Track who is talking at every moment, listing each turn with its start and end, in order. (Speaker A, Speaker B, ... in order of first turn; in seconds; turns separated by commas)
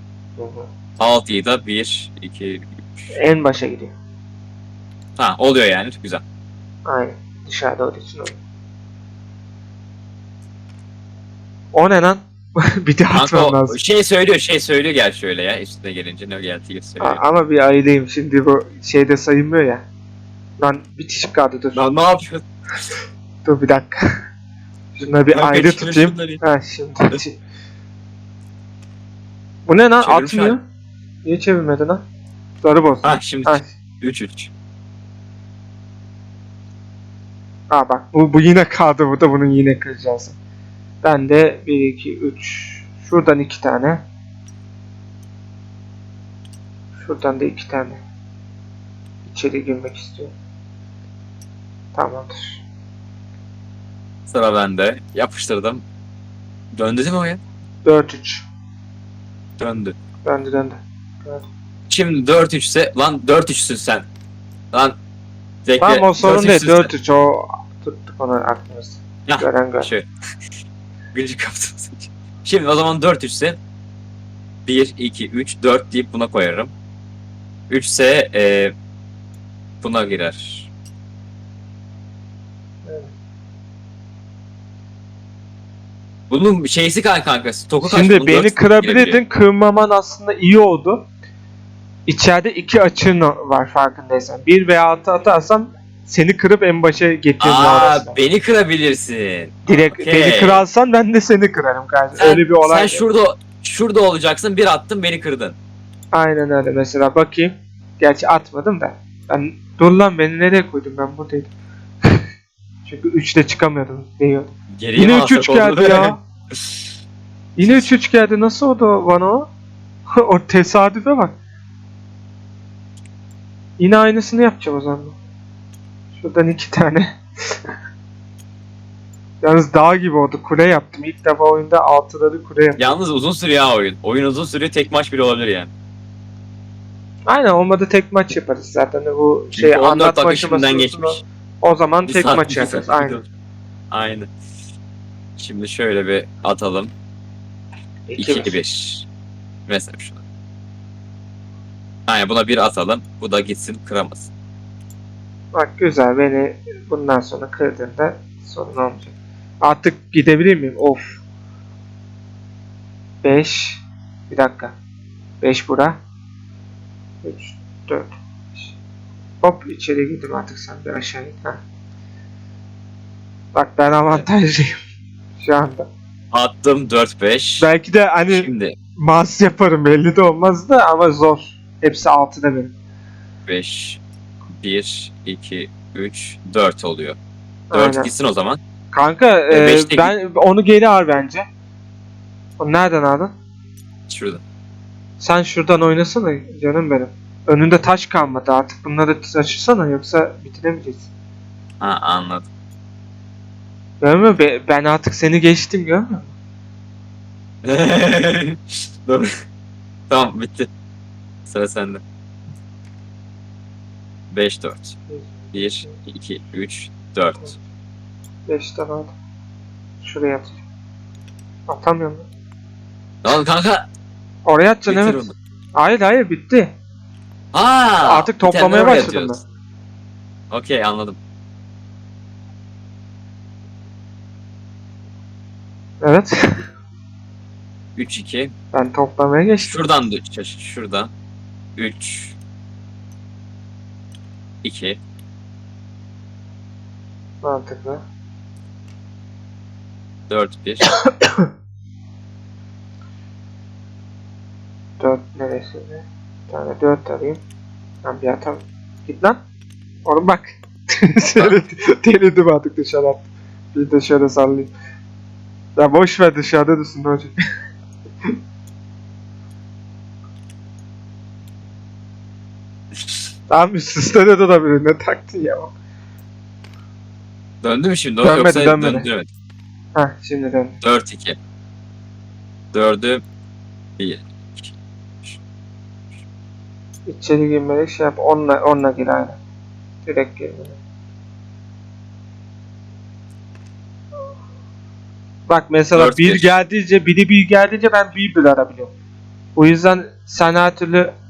Speaker A: 0.4-0.7, Speaker B: 1.0-3.1, Speaker A: 3.1-3.9, Speaker B: 5.2-6.2, Speaker A: 6.9-8.4, Speaker A: 11.7-13.8, Speaker B: 13.1-17.2, Speaker A: 17.0-19.9, Speaker A: 20.6-21.9, Speaker B: 21.7-22.4, Speaker A: 23.4-24.1, Speaker A: 24.9-27.4, Speaker B: 25.0-26.4, Speaker A: 29.7-30.6, Speaker B: 30.0-30.6, Speaker A: 31.2-32.0, Speaker A: 32.6-33.7, Speaker B: 33.0-34.5, Speaker A: 37.7-40.4, Speaker A: 41.0-44.0, Speaker A: 47.0-48.0, Speaker A: 49.2-50.3, Speaker A: 51.9-52.6, Speaker B: 54.3-55.8, Speaker B: 56.7-57.4, Speaker A: 57.9-58.5, Speaker B: 59.6-60.0, Speaker A: 60.2-61.5, Speaker B: 61.9-64.1, Speaker B: 64.7-65.0, Speaker B: 65.7-66.9, Speaker A: 65.8-69.9, Speaker B: 69.3-70.1, Speaker B: 71.1-73.6, Speaker B: 74.7-76.7, Speaker B: 77.7-78.7, Speaker B: 79.8-80.7, Speaker A: 82.8-83.1, Speaker B: 86.3-89.2, Speaker A: 87.8-91.1, Speaker A: 92.1-98.2, Speaker B: 97.4-100.6, Speaker A: 99.7-103.0, Speaker B: 102.2-105.6, Speaker A: 106.1-111.5, Speaker A: 112.8-116.2, Speaker B: 114.8-116.2, Speaker A: 117.6-119.5, Speaker A: 120.1-121.3, Speaker A: 123.8-125.2, Speaker A: 126.2-127.2, Speaker A: 129.4-132.9, Speaker B: 132.8-135.7, Speaker A: 137.3-143.2, Speaker B: 139.5-141.2, Speaker B: 142.1-143.3, Speaker B: 143.9-144.3, Speaker B: 145.4-146.9, Speaker A: 148.1-148.6, Speaker B: 148.2-149.1, Speaker B: 149.7-150.2, Speaker B: 152.1-154.3, Speaker A: 155.6-159.1, Speaker A: 159.6-161.2, Speaker A: 163.2-164.8, Speaker A: 165.4-166.0, Speaker A: 167.2-168.7, Speaker A: 169.4-171.6, Speaker A: 173.5-174.8, Speaker A: 175.4-175.9, Speaker B: 176.3-177.7, Speaker A: 177.6-182.7, Speaker B: 178.3-178.8, Speaker B: 183.5-184.0, Speaker B: 184.5-187.2, Speaker A: 187.7-188.1, Speaker B: 187.7-188.6, Speaker A: 188.9-191.5, Speaker B: 189.5-190.1, Speaker A: 192.6-193.3, Speaker B: 194.1-194.4, Speaker A: 195.2-201.1, Speaker B: 201.8-202.5, Speaker A: 204.0-206.3, Speaker B: 207.6-209.3, Speaker B: 210.1-210.7, Speaker B: 211.5-212.0, Speaker B: 214.3-215.0, Speaker A: 215.1-215.9, Speaker B: 215.5-217.6, Speaker A: 218.5-219.1, Speaker A: 220.0-220.6, Speaker A: 221.7-222.3, Speaker B: 223.2-223.9, Speaker A: 224.4-226.7, Speaker B: 224.9-225.3, Speaker B: 227.5-229.3, Speaker A: 228.1-229.4, Speaker B: 230.5-231.2, Speaker A: 236.0-236.7, Speaker B: 237.9-238.5, Speaker A: 238.7-239.8, Speaker B: 239.6-241.1, Speaker B: 241.8-242.3, Speaker B: 244.6-245.0, Speaker A: 247.4-248.0, Speaker B: 250.3-250.9, Speaker A: 251.1-251.5, Speaker A: 255.0-257.4, Speaker A: 258.0-259.4, Speaker A: 260.1-264.7, Speaker A: 265.8-267.4, Speaker A: 273.5-275.7, Speaker B: 277.6-279.3, Speaker A: 278.2-279.1, Speaker A: 279.9-280.8, Speaker B: 280.8-281.4, Speaker B: 282.7-283.2, Speaker B: 284.0-285.4, Speaker A: 287.1-289.4, Speaker A: 290.1-290.8, Speaker A: 295.5-298.9, Speaker B: 295.9-296.5, Speaker A: 299.6-301.1